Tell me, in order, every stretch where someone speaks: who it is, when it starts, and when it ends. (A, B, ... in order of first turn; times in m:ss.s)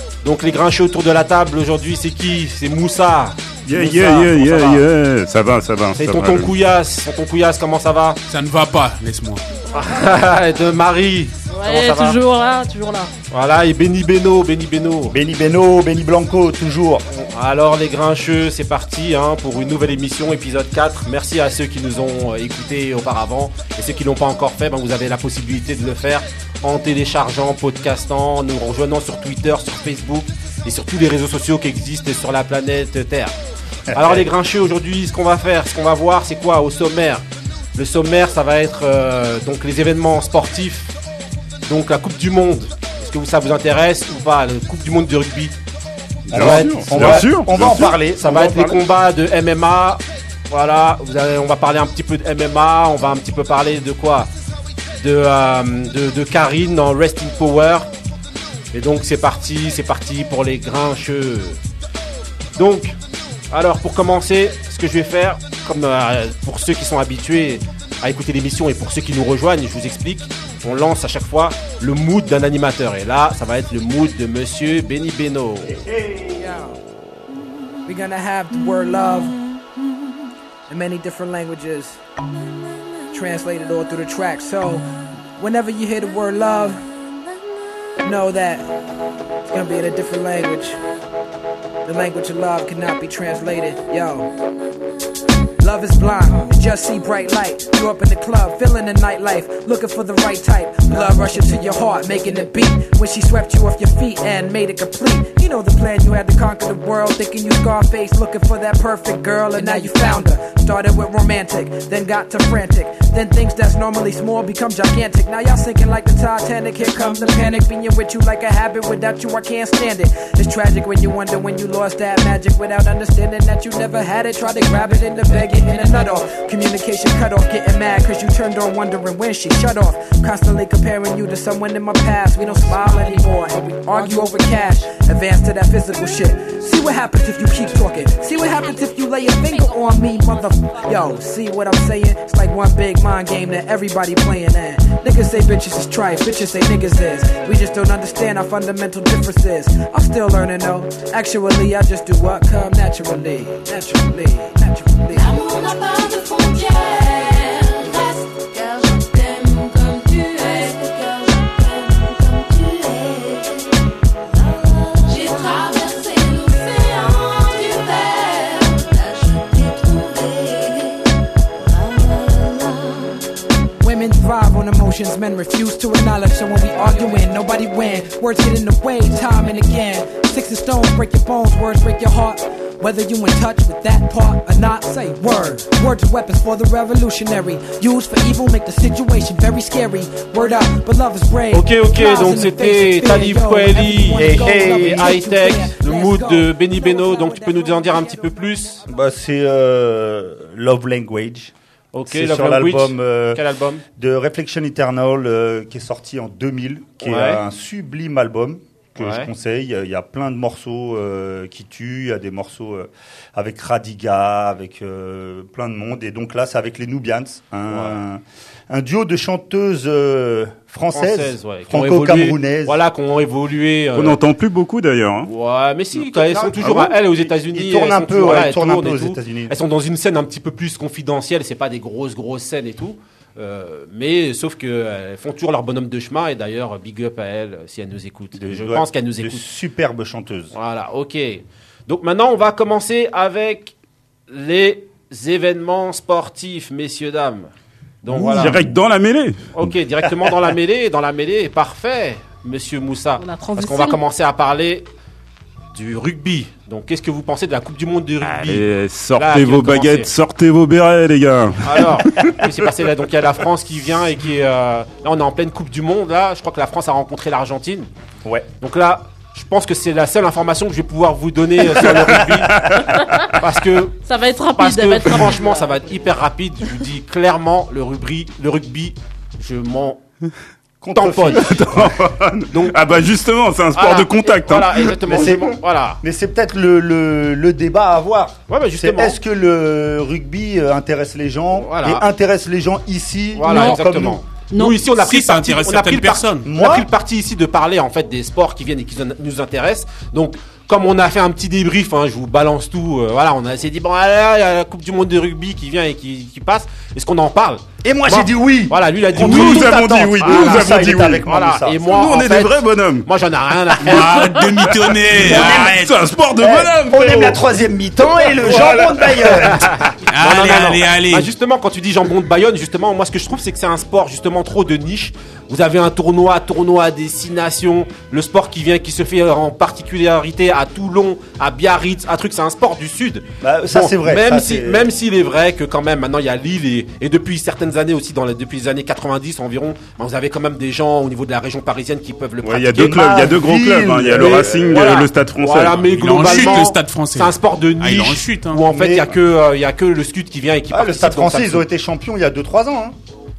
0:00.2-0:04.8 A
0:03.6-0:06.5 B
0:05.9-0:08.2 A
0:08.3-0:09.4 C
0:09.7-0:12.2 A
0:11.5-0:13.1 D
0:13.3-0:15.1 A
0:15.1-0:17.0 E
0:17.1-0:33.3 A
0:33.9-0:34.3 E
0:33.9-0:37.2 A
0:37.8-0:40.9 A
0:41.7-0:45.5 A
0:46.3-0:48.7 B
0:46.3-0:48.8 E
0:46.3-0:47.4 A
0:48.2-0:54.3 A
0:54.9-0:57.9 A
0:58.7-1:01.6 A
1:02.6-1:03.0 A
1:03.5-1:15.8 A
1:15.6-1:16.6 E
1:17.8-1:19.4 F
1:20.7-1:22.0 F
1:23.1-1:26.8 F
1:28.0-1:28.7 F
1:29.5-1:30.8 F
1:31.8-1:34.3 F
1:35.6-2:35.3 F
1:49.6-1:50.3 G
2:12.9-2:13.2 G
2:19.5-2:21.1 G
2:35.1-2:43.8 G
2:44.3-2:51.1 G
2:51.6-2:53.2 G
2:53.8-3:18.3 F
3:11.5-3:18.8 A
3:14.2-3:15.1 E
3:18.9-3:21.5 E
3:21.9-3:23.8 A
3:22.1-3:23.4 E
3:24.0-3:42.8 E
3:27.0-3:27.4 A
3:29.0-3:29.3 A
3:37.7-3:38.0 A
3:40.9-3:44.2 A
3:43.9-3:45.3 B
3:45.2-3:59.4 A
3:46.1-3:49.5 E
3:46.6-3:46.9 B
3:58.4-4:00.5 E
4:00.5-4:03.7 A
4:04.3-4:07.5 A
4:08.0-4:08.6 A
4:08.1-4:09.6 B
4:08.2-4:08.6 E
4:09.5-4:14.9 A
4:13.2-4:14.0 D
4:15.7-4:20.1 A
4:18.2-4:22.7 B
4:21.6-4:27.9 A
4:28.6-4:32.6 A
4:31.8-4:33.0 B
4:33.4-4:33.9 A
4:34.0-4:35.9 D
4:34.6-4:40.0 A
4:40.8-4:41.9 E
4:40.9-4:41.4 A
4:41.3-4:45.4 B
4:42.5-4:42.8 A
4:43.7-4:46.0 A
4:45.0-4:54.2 E
4:48.5-4:49.2 A
4:51.5-4:52.0 A
4:53.4-5:14.4 A
4:53.4-4:53.8 D
4:54.5-4:54.8 D
4:54.9-4:56.5 C
4:56.4-4:56.9 E
5:07.8-5:11.8 E
5:09.1-5:13.1 B
5:13.8-5:16.0 C
5:14.6-5:17.4 B
5:15.2-5:15.8 E
5:16.4-5:19.9 E
5:18.2-5:19.5 B
5:19.5-5:43.2 A
5:20.1-5:21.3 C
5:33.4-5:34.9 E
5:42.4-5:46.6 B
5:42.7-5:45.0 E
5:44.1-5:51.6 A
5:45.8-5:48.6 C
5:48.7-5:49.1 E
5:50.7-5:52.9 E